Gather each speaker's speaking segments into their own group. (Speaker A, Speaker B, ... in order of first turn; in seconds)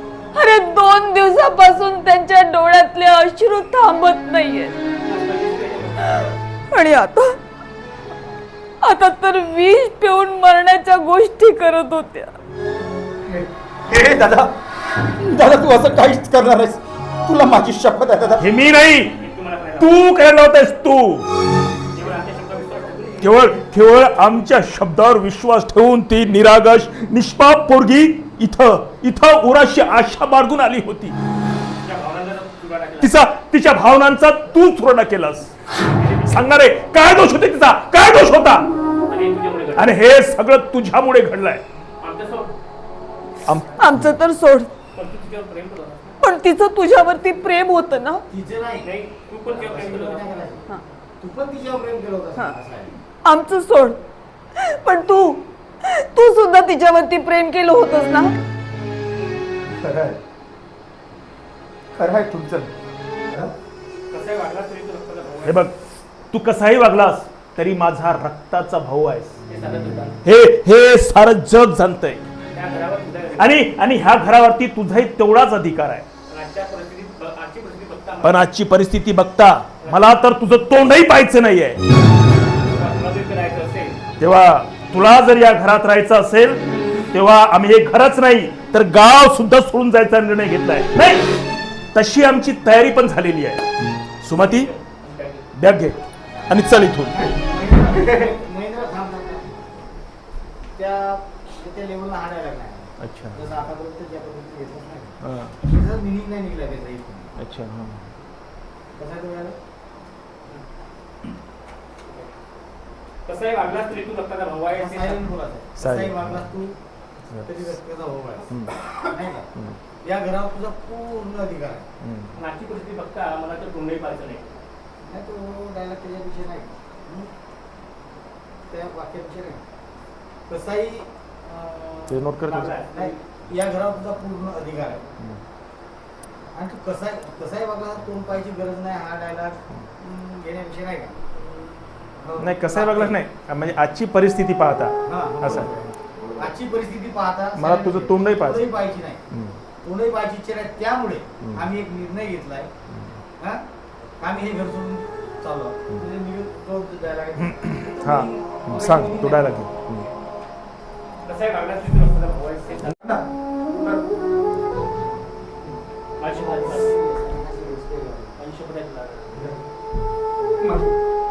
Speaker A: 0.3-4.7, 6.7-7.4, 8.8-12.3, 43.8-44.7, 46.2-48.2, 53.2-54.0, 54.6-58.3
Speaker B: 5.0-6.3, 19.1-20.0, 21.9-23.6, 31.8-33.1, 35.9-36.5, 39.1-40.0, 42.0-42.5, 44.9-46.2, 48.8-50.4, 64.1-65.7, 69.5-70.2, 72.5-73.7, 76.3-78.5, 79.8-80.2, 82.7-84.0, 94.4-95.5, 113.2-115.3, 122.3-124.6, 132.4-133.2, 161.2-163.0, 166.2-166.9, 168.4-169.4
Speaker C: 13.3-14.5, 15.2-18.4, 59.8-60.1, 61.9-62.7, 163.0-164.0, 170.6-170.9
Speaker D: 18.4-19.1, 19.8-21.2, 23.2-31.1, 33.0-35.5, 36.3-38.6, 39.8-41.6, 43.5-44.1, 65.4-65.8, 66.3-69.3, 70.2-72.2, 73.4-76.0, 78.2-81.8, 84.2-91.3, 91.9-93.6, 94.2-94.7, 95.6-96.0, 96.5-97.3, 103.0-103.4, 105.2-105.5, 107.4-108.1, 115.8-116.5, 118.5-118.9, 122.0-122.3, 132.1-132.7, 142.4-145.7, 147.6-148.7, 157.4-160.1
Speaker E: 48.3-50.6, 51.2-52.9, 97.1-99.9, 100.8-107.3, 108.9-109.5, 114.7-116.8, 117.4-118.5, 119.0-119.5, 120.0-121.8, 125.0-127.3, 128.7-129.6, 130.5-132.2, 132.9-135.1, 136.5-141.2, 142.2-143.2, 145.1-149.2, 149.8-152.7, 154.2-159.6, 166.2-168.4